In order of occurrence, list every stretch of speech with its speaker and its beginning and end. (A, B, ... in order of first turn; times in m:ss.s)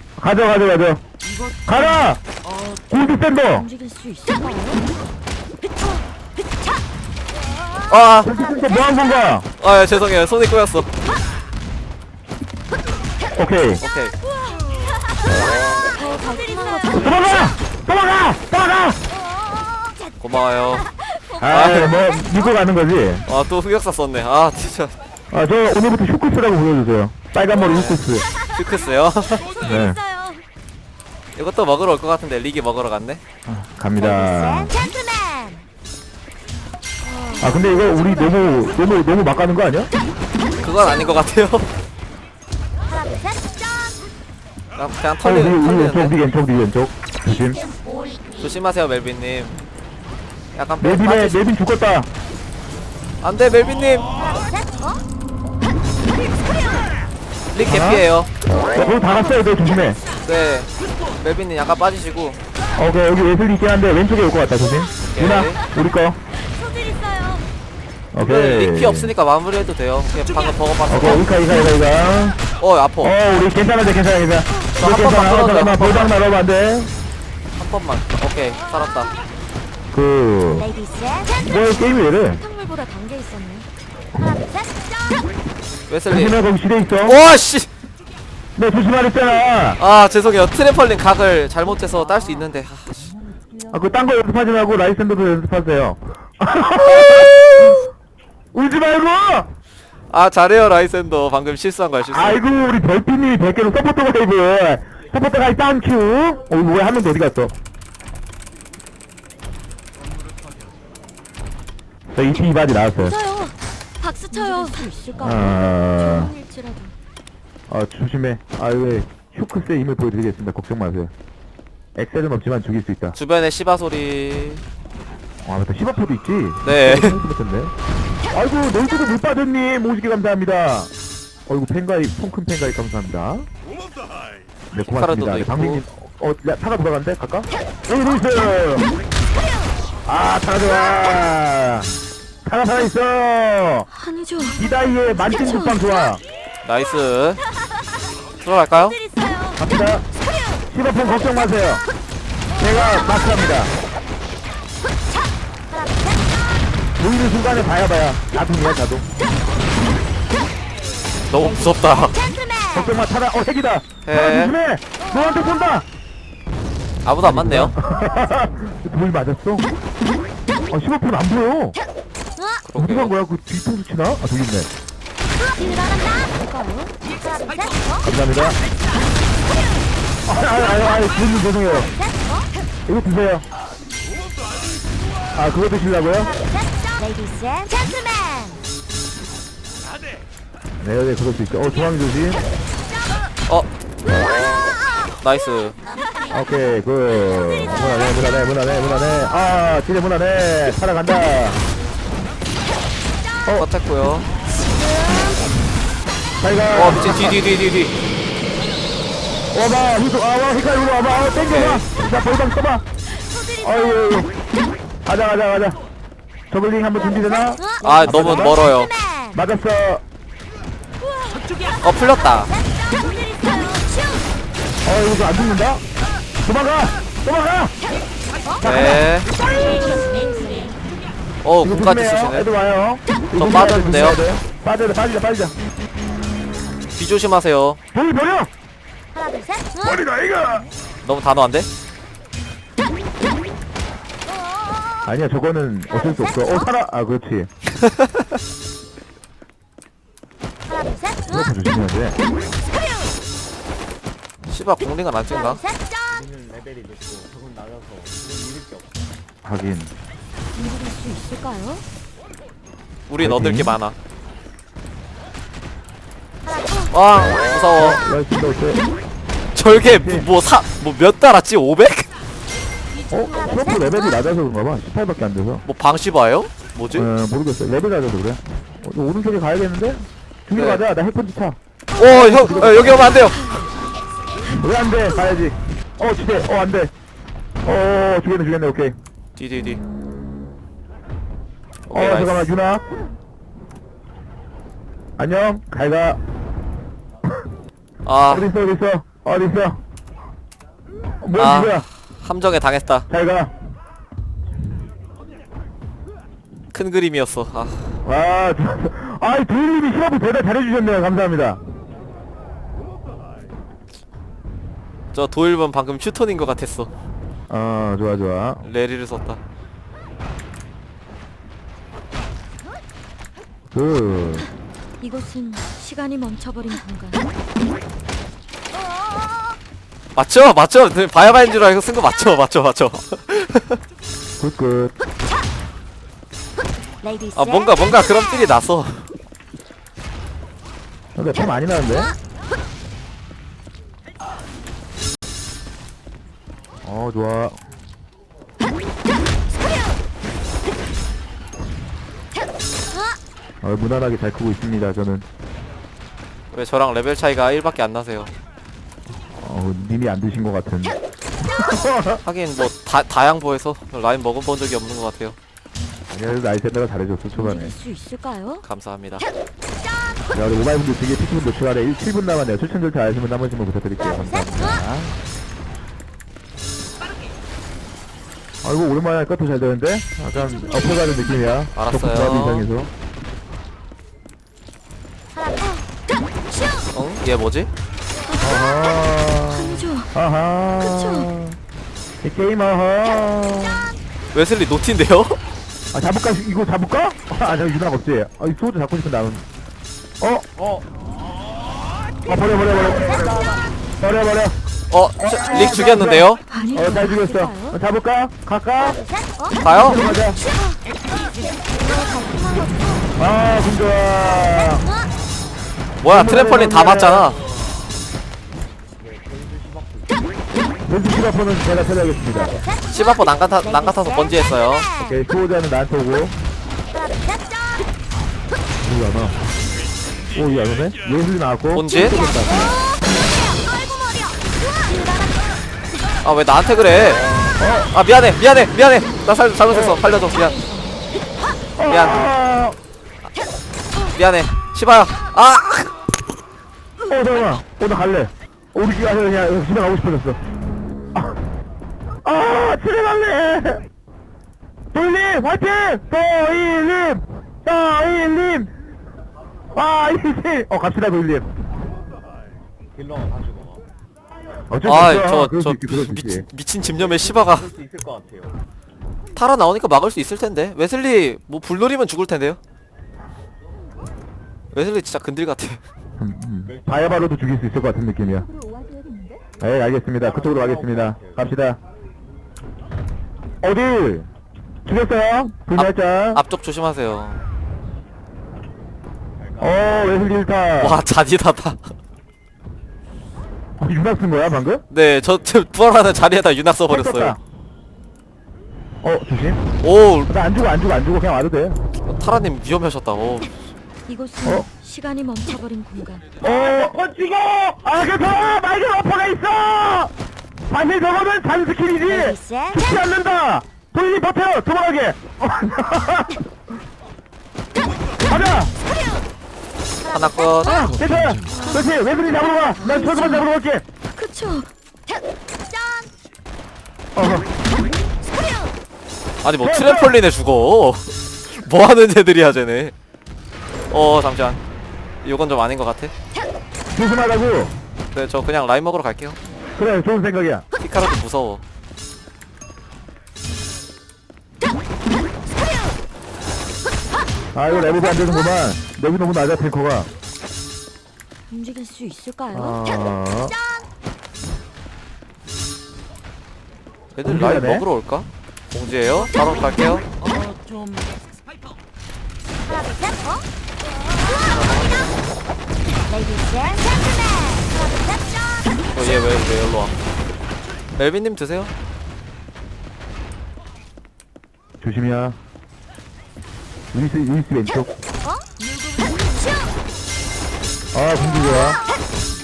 0:00.2-0:01.0 A
0:01.7-0:02.2 A
0:02.8-0:03.7 A
0:03.5-0:04.9 B
0:07.9-0:08.3 C
0:08.2-0:09.5 A
0:09.6-0:10.9 C
0:13.4-0:13.8 A
0:13.8-0:14.2 C
0:15.8-0:17.3 B
0:16.9-0:19.0 A
0:20.2-0:20.9 C
0:21.4-0:23.3 A
0:21.4-0:22.0 C
0:23.3-0:25.0 C
0:25.3-0:28.2 A
0:27.6-0:29.8 C
0:29.6-0:30.0 A
0:29.8-0:30.3 B
0:31.4-0:33.2 C
0:33.5-0:34.8 A
0:37.0-0:39.0 B
0:37.4-0:39.9 A
0:40.6-0:41.7 C
0:44.8-0:46.2 C
0:45.2-0:47.6 A
0:48.4-0:49.6 C
0:50.5-0:51.4 C
0:50.8-0:52.1 A
0:53.2-0:54.3 C
0:57.5-0:58.3 C
0:57.6-0:58.1 A
0:58.6-1:00.0 A
1:00.2-1:02.4 C
1:02.8-1:06.2 A
1:05.1-1:05.6 C
1:08.1-1:09.1 A
1:08.2-1:11.3 C
1:10.9-1:12.4 A
1:12.6-1:13.2 C
1:13.0-1:16.9 A
1:14.8-1:16.2 C
1:17.6-1:19.1 C
1:19.9-1:20.8 A
1:21.4-1:22.4 A
1:22.2-1:23.7 B
1:24.2-1:24.4 A
1:25.9-1:26.4 C
1:26.1-1:27.2 A
1:27.0-1:27.7 C
1:28.6-1:29.8 A
1:29.8-1:33.2 C
1:33.7-1:37.9 A
1:38.5-1:39.5 A
1:40.1-1:42.4 C
1:42.1-1:47.5 A
1:52.1-1:53.2 A
1:53.0-1:56.9 B
1:55.2-1:56.4 A
1:57.7-2:01.1 A
2:02.0-2:03.2 A
2:03.1-2:04.6 C
2:05.4-2:07.7 A
2:06.6-2:07.2 C
2:08.3-2:10.9 A
2:11.5-2:13.5 A
2:14.7-2:18.9 A
2:14.8-2:15.8 C
2:20.1-2:21.9 A
2:22.4-2:23.9 A
2:23.9-2:24.6 B
2:24.4-2:26.2 A
2:25.2-2:25.9 B
2:26.6-2:27.4 C
2:28.4-2:29.0 C
2:29.6-2:30.0 A
2:30.7-2:31.8 A
2:32.6-2:33.7 A
2:37.0-2:39.1 A
2:41.3-2:42.2 C
2:42.7-2:45.9 A
2:44.0-2:44.5 C
2:47.0-2:47.8 C
2:47.2-2:49.7 A
2:50.7-2:51.8 A
2:52.6-2:53.1 C
2:52.8-2:54.7 A
2:56.0-2:56.9 B
2:58.0-2:58.6 A
3:00.3-3:02.0 A
3:02.9-3:03.4 A
3:05.4-3:06.3 A
3:10.8-3:12.4 A
3:15.2-3:15.8 C
3:16.3-3:21.6 A
3:23.5-3:24.3 C
3:26.4-3:27.4 A
3:26.7-3:28.0 C
3:29.5-3:32.8 A
3:31.4-3:31.9 C
3:33.6-3:34.3 A
3:35.1-3:35.8 A
3:36.5-3:38.6 A
3:37.8-3:38.9 C
3:39.3-3:40.0 A
3:41.8-3:42.5 C
3:44.8-3:45.8 A
3:46.4-3:47.7 A
3:48.6-3:49.2 A
3:48.6-3:49.3 C
3:49.4-3:50.7 B
3:51.4-3:52.5 C
3:51.6-3:55.6 A
3:53.4-3:54.2 C
3:56.9-3:57.8 C
3:57.9-3:58.5 A
3:59.8-4:00.7 A
4:01.0-4:01.7 C
4:05.1-4:07.5 A
4:11.3-4:12.2 A
4:14.5-4:15.6 C
4:16.1-4:19.0 D
4:19.4-4:19.9 A
4:20.6-4:21.8 B
4:23.1-4:24.0 C
4:23.2-4:23.8 A
4:26.9-4:28.0 C
4:27.8-4:28.8 A
4:29.6-4:32.1 C
4:29.8-4:30.3 A
4:33.1-4:35.6 A
4:35.6-4:37.1 C
4:37.0-4:41.6 A
4:40.5-4:40.8 C
4:42.0-4:43.6 C
4:42.4-4:43.1 A
4:43.0-4:43.3 B
4:44.4-4:46.9 A
4:47.6-4:49.0 A
4:49.4-4:49.8 C
4:51.9-4:52.5 C
4:51.9-4:52.9 A
4:55.2-4:56.2 A
4:58.0-4:58.5 C
4:58.3-4:59.8 A
5:01.2-5:01.9 A
5:01.4-5:03.1 C
5:03.1-5:03.5 A
5:06.7-5:08.0 C
5:08.0-5:11.6 A
5:15.1-5:16.9 C
5:17.5-5:18.6 A
5:18.6-5:19.4 C
5:23.7-5:24.5 A
5:25.0-5:27.3 B
5:30.2-5:33.8 C
5:34.4-5:34.9 A
5:37.3-5:39.1 C
5:41.2-5:42.2 A
5:46.8-5:47.6 A
5:53.6-5:55.3 A
5:56.5-5:58.3 C
5:59.4-6:02.2 A
6:02.2-6:05.4 C
6:06.1-6:07.8 A
6:07.3-6:08.6 B
6:08.6-6:09.3 C
6:10.3-6:15.2 A
6:18.6-6:22.9 A
6:21.8-6:22.7 C
6:26.9-6:27.7 C
6:28.3-6:28.7 B
6:28.4-6:31.6 A
6:29.5-6:30.1 B
6:30.8-6:31.3 B
6:32.2-6:33.9 A
6:34.3-6:35.4 C
6:35.9-6:39.4 A
6:40.2-6:40.5 A
6:40.6-6:40.9 D
6:42.3-6:44.6 A
6:43.0-6:43.6 D
6:44.9-6:46.4 C
6:45.2-6:49.0 A
6:46.5-6:47.8 B
6:49.6-6:50.0 C
6:49.7-6:50.4 A
6:51.7-6:53.1 B
6:53.2-6:54.9 A
6:56.0-6:57.4 C
6:56.0-6:57.3 A
6:59.0-7:00.2 D
7:00.8-7:02.6 A
7:02.9-7:04.9 C
7:05.0-7:06.4 A
7:08.8-7:09.4 A
7:10.3-7:12.8 A
7:11.7-7:12.2 C
7:16.2-7:17.3 C
7:17.6-7:17.9 A
7:17.9-7:20.6 C
7:19.7-7:20.0 A
7:20.2-7:21.0 B
7:21.8-7:22.8 A
7:21.9-7:22.2 C
7:24.1-7:26.0 C
7:27.1-7:30.4 A
7:32.2-7:33.8 A
7:34.9-7:38.7 A
7:39.7-7:41.5 A
7:42.9-7:43.8 D
7:44.7-7:46.5 A
7:44.8-7:47.7 C
7:47.0-7:48.6 D
7:49.4-7:52.6 C
7:54.7-7:55.8 C
7:56.2-7:58.5 A
7:56.7-7:57.3 D
7:59.6-8:01.8 A
8:00.2-8:01.4 D
8:03.6-8:04.3 A
8:04.9-8:06.4 A
8:05.8-8:07.4 C
8:09.4-8:10.1 D
8:09.6-8:11.0 A
8:10.8-8:11.9 C
8:13.8-8:14.8 A
8:14.9-8:17.4 C
8:16.9-8:17.4 A
8:19.0-8:19.6 A
8:19.8-8:20.4 C
8:20.3-8:21.8 A
8:22.0-8:23.5 C
8:24.1-8:26.3 B
8:26.4-8:30.1 A
8:30.7-8:36.5 A
8:38.3-8:38.7 A
8:40.1-8:40.8 C
8:40.6-8:43.8 A
8:41.5-8:41.9 B
8:42.8-8:43.5 B
8:44.1-8:44.7 B
8:47.2-8:47.5 A
8:49.4-8:52.9 C
8:49.6-8:50.2 A
8:53.9-8:54.6 C
8:55.2-8:56.1 C
8:56.9-8:57.7 A
8:58.1-8:59.4 C
8:59.8-9:00.6 A
9:00.8-9:01.6 C
9:07.6-9:10.1 A
9:11.5-9:12.8 B
9:12.5-9:13.6 A
9:17.1-9:20.1 C
9:17.2-9:17.9 A
9:24.4-9:25.3 C
9:28.9-9:30.0 C
9:31.0-9:31.7 C
9:34.8-9:35.4 A
9:36.9-9:37.9 A
9:40.9-9:41.8 A